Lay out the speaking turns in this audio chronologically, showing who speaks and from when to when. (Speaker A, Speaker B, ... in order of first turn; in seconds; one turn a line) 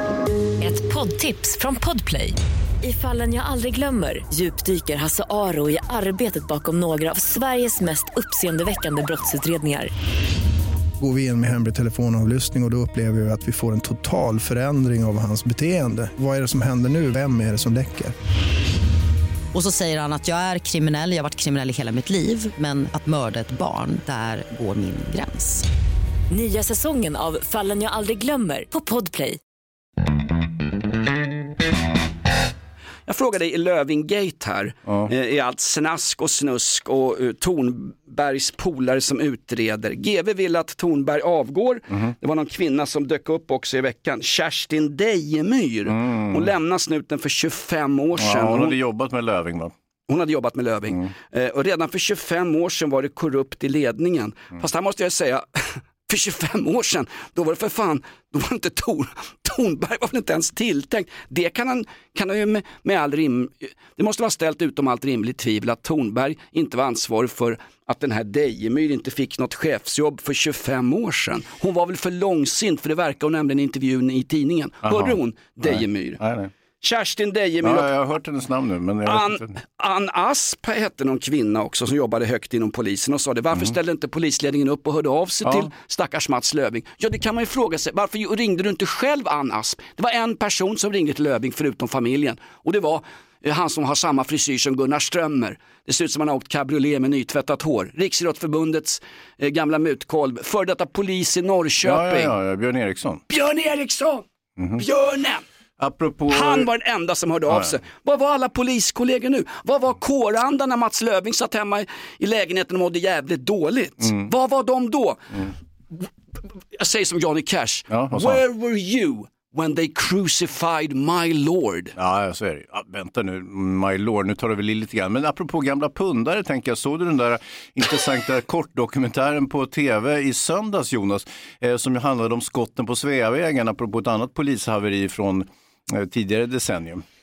Speaker A: 0.6-9.9
Speaker B: 11.0-18.1
Speaker C: 19.5-25.6
Speaker A: 26.3-29.4
Speaker D: 33.1-48.8
Speaker E: 45.9-46.5
Speaker E: 48.2-49.7
Speaker D: 50.1-76.2
Speaker E: 74.8-76.5
Speaker D: 76.8-77.9
Speaker E: 77.6-79.6
Speaker D: 79.1-102.3
Speaker E: 85.5-85.7
Speaker E: 101.8-103.2
Speaker D: 103.3-104.2
Speaker E: 104.6-104.8
Speaker D: 104.8-105.4
Speaker E: 105.8-106.7
Speaker D: 106.3-116.0
Speaker E: 107.5-107.7
Speaker E: 114.0-114.3
Speaker D: 116.8-122.0
Speaker E: 117.9-118.4
Speaker E: 122.0-137.0